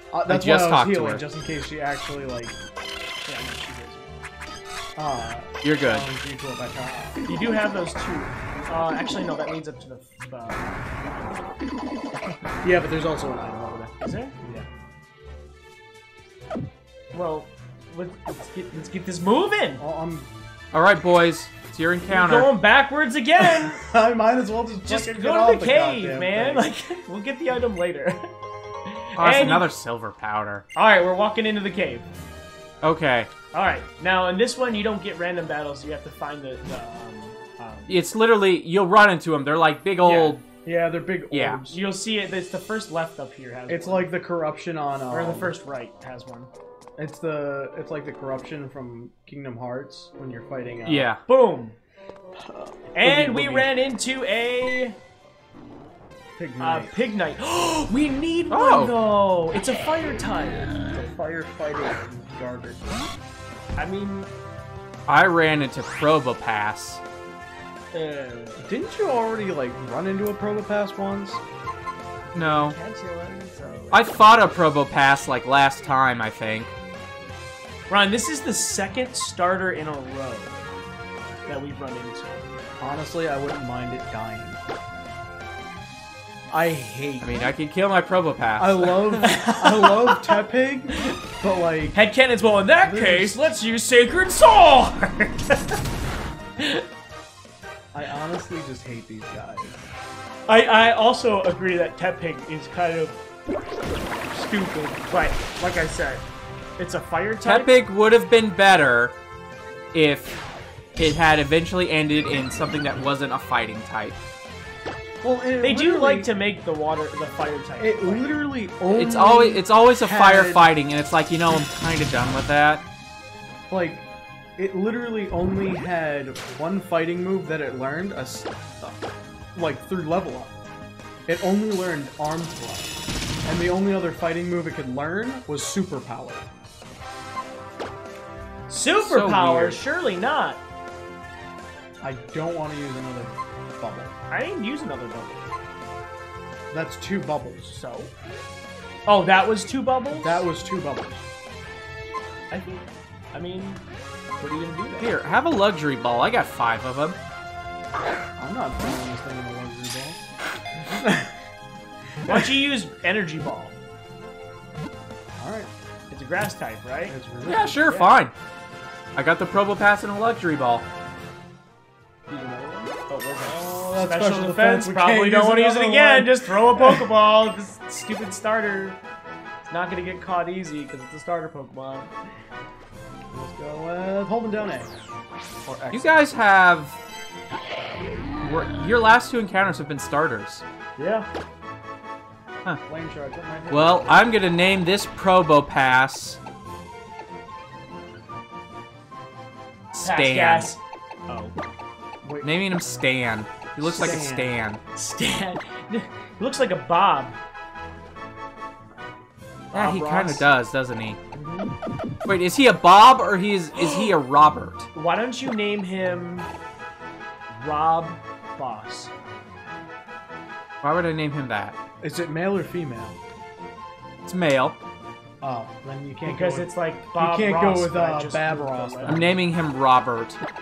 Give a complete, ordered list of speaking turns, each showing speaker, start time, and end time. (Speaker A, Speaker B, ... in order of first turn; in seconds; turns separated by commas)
Speaker A: 0.1-2.5, Speaker B: 0.2-1.2, Speaker C: 3.3-4.2, Speaker A: 5.0-7.3, Speaker B: 5.6-6.1, Speaker C: 7.3-11.5, Speaker A: 12.6-13.9, Speaker C: 14.0-14.3, Speaker C: 17.1-19.8, Speaker A: 19.8-20.3, Speaker B: 20.7-22.5, Speaker C: 22.1-23.8, Speaker A: 23.6-26.7, Speaker C: 24.8-28.3, Speaker C: 28.9-29.7, Speaker B: 29.2-30.6, Speaker C: 30.8-32.1, Speaker B: 32.8-33.3, Speaker C: 33.5-38.0, Speaker B: 37.9-40.5, Speaker C: 40.0-40.4, Speaker A: 40.6-41.8, Speaker B: 41.3-41.6, Speaker C: 41.7-44.1, Speaker A: 43.7-45.5, Speaker C: 45.1-46.5, Speaker A: 47.0-51.1, Speaker B: 50.8-51.2, Speaker C: 51.2-51.8, Speaker A: 52.4-53.7, Speaker C: 52.9-55.0, Speaker A: 56.4-57.1, Speaker C: 56.6-60.9, Speaker B: 58.5-58.9, Speaker A: 60.9-63.0, Speaker C: 63.8-64.3, Speaker B: 65.1-67.0, Speaker C: 67.9-68.7, Speaker A: 68.6-71.4, Speaker C: 72.3-74.1, Speaker B: 72.3-72.8, Speaker B: 73.9-76.7, Speaker C: 77.9-80.7, Speaker C: 81.5-82.5, Speaker A: 82.8-84.6, Speaker A: 86.5-87.4, Speaker B: 87.2-89.1, Speaker A: 88.6-92.0, Speaker C: 89.2-90.4, Speaker C: 90.9-91.2, Speaker C: 91.9-95.8, Speaker A: 92.8-93.4, Speaker C: 96.6-96.8, Speaker A: 97.9-99.8, Speaker C: 100.5-103.2, Speaker C: 104.3-106.2, Speaker C: 106.8-107.8, Speaker B: 107.4-109.1, Speaker B: 109.9-110.4, Speaker B: 111.0-114.2, Speaker A: 115.2-116.3, Speaker C: 115.6-118.4, Speaker A: 117.8-120.7, Speaker B: 118.9-122.8, Speaker A: 123.7-129.0, Speaker A: 129.5-130.5, Speaker A: 131.3-136.5, Speaker C: 138.7-140.6, Speaker B: 139.0-139.8, Speaker A: 142.0-144.1, Speaker C: 144.3-145.4, Speaker A: 146.7-147.8, Speaker C: 147.7-148.1, Speaker C: 149.1-150.4, Speaker A: 150.1-151.2, Speaker C: 152.5-153.8, Speaker C: 154.4-155.1, Speaker B: 155.0-157.2, Speaker A: 158.4-160.2, Speaker A: 160.9-161.4, Speaker C: 162.2-163.8, Speaker A: 165.4-165.7, Speaker C: 166.1-167.2, Speaker A: 167.1-167.8, Speaker B: 167.4-168.3, Speaker B: 169.1-170.8, Speaker C: 172.3-179.0, Speaker A: 173.5-177.1, Speaker C: 179.7-182.1, Speaker A: 183.3-184.9, Speaker C: 185.7-186.0, Speaker B: 185.9-187.0, Speaker B: 188.4-190.6, Speaker C: 191.0-191.2, Speaker A: 192.8-194.4, Speaker B: 193.7-196.4, Speaker B: 199.9-200.7, Speaker C: 200.0-201.5, Speaker A: 202.2-202.6, Speaker B: 202.4-204.8, Speaker A: 203.8-204.5, Speaker C: 204.9-207.4, Speaker C: 209.7-210.4, Speaker B: 209.7-211.2, Speaker C: 211.3-211.7, Speaker B: 212.2-214.9, Speaker C: 213.8-214.1, Speaker C: 214.9-216.5, Speaker C: 217.5-219.1, Speaker B: 220.8-221.8, Speaker A: 222.0-223.2, Speaker B: 224.2-224.8, Speaker A: 225.4-229.3, Speaker C: 226.2-229.3, Speaker B: 229.1-230.4